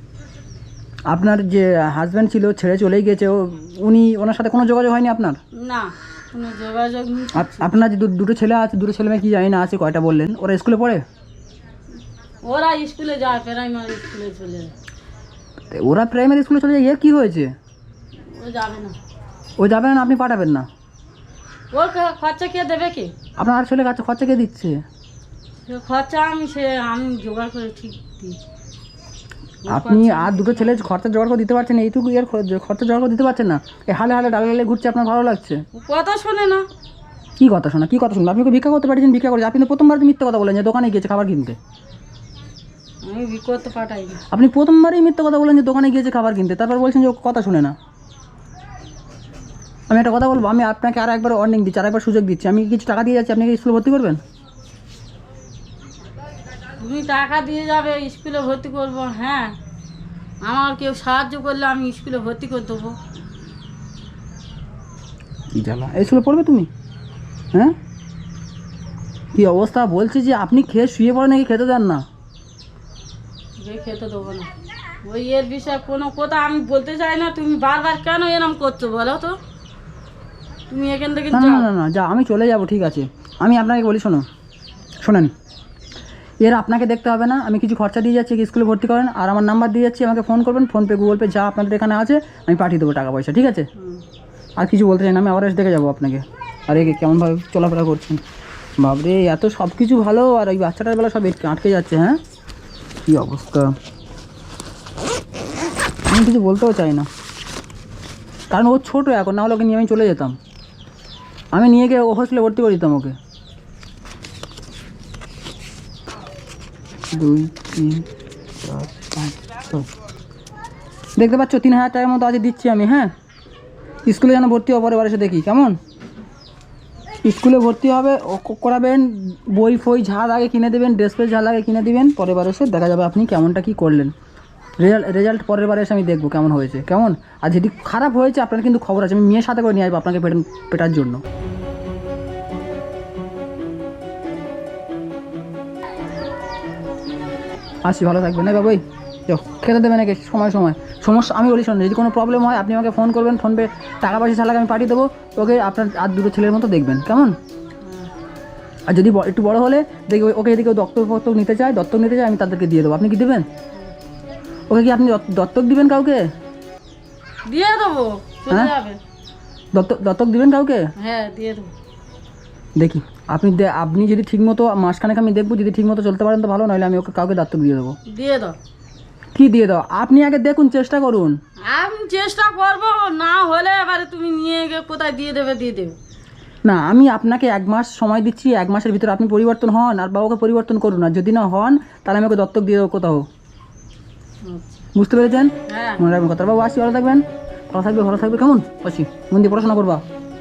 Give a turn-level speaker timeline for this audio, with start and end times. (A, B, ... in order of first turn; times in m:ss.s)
0:01.1-0:05.4 A
0:05.6-0:07.7 B
0:07.3-0:11.0 A
0:12.4-0:14.7 B
0:15.7-0:17.5 A
0:18.2-0:19.0 B
0:19.6-0:20.7 A
0:21.7-0:23.1 B
0:23.4-0:24.8 A
0:25.7-0:28.4 B
0:29.6-0:30.8 B
0:29.7-0:35.6 A
0:35.7-0:36.6 B
0:37.4-0:41.6 A
0:43.0-0:44.2 B
0:44.3-0:47.7 A
0:49.9-0:54.2 A
0:56.8-0:59.6 B
1:00.4-1:03.0 B
1:05.5-1:06.7 A
1:09.3-1:12.0 A
1:13.6-1:14.5 B
1:15.0-1:19.4 B
1:20.7-1:21.7 B
1:21.3-1:24.2 A
1:25.0-1:25.3 A
1:26.4-1:33.7 A
1:33.8-1:34.0 B
1:34.6-1:38.2 A
1:38.8-1:42.2 A
1:43.1-1:43.8 A
1:46.1-1:47.1 A
1:48.5-1:50.4 A
1:51.5-1:53.2 A
1:57.1-1:58.0 A
1:58.6-1:59.9 A
2:01.2-2:03.1 A
2:04.0-2:05.8 A
2:07.2-2:14.1 A
2:14.8-2:21.2 A
2:27.8-2:37.3 A
2:38.9-2:43.4 A
2:44.7-2:46.2 A
2:47.5-2:49.0 B
2:49.7-2:50.9 A
2:51.0-2:51.7 B
2:52.8-2:58.0 A
2:58.1-2:58.6 B
2:59.3-3:01.4 A
3:01.6-3:06.0 B
3:06.6-3:13.2 A
3:14.4-3:14.8 B
3:14.9-3:20.0 A
3:15.7-3:16.0 B